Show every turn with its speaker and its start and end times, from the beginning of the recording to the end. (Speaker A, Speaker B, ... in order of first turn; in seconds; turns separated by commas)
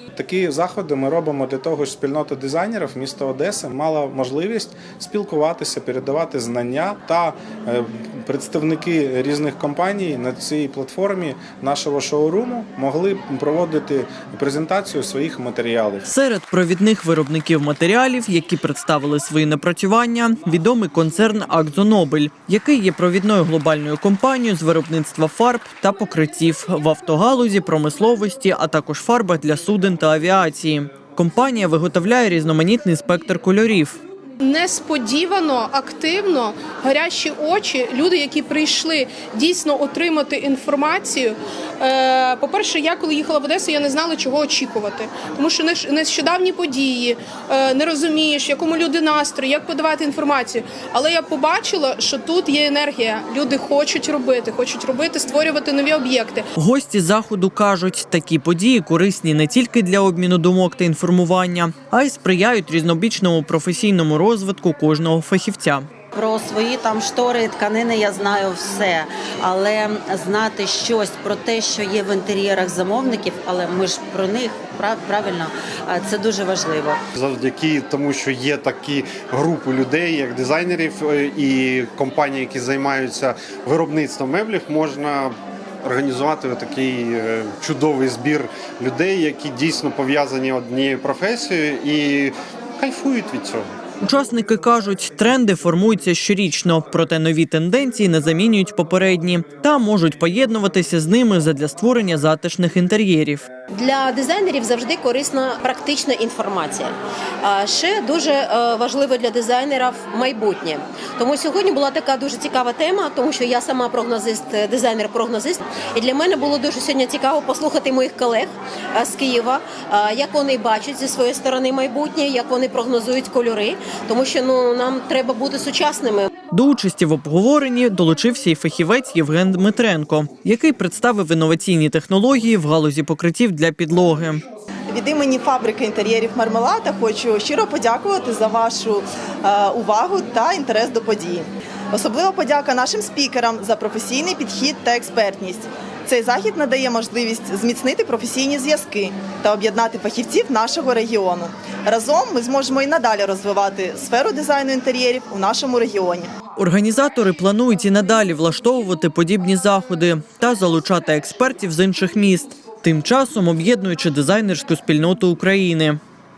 Speaker A: 0.1-16.1, Speaker B: 16.1-34.0, Speaker C: 34.4-56.4, Speaker B: 56.5-65.9, Speaker D: 66.2-77.0, Speaker E: 77.2-93.7, Speaker B: 94.0-103.5, Speaker F: 103.7-126.3, Speaker B: 126.5-134.4, Speaker G: 134.9-156.3, Speaker B: 156.6-166.0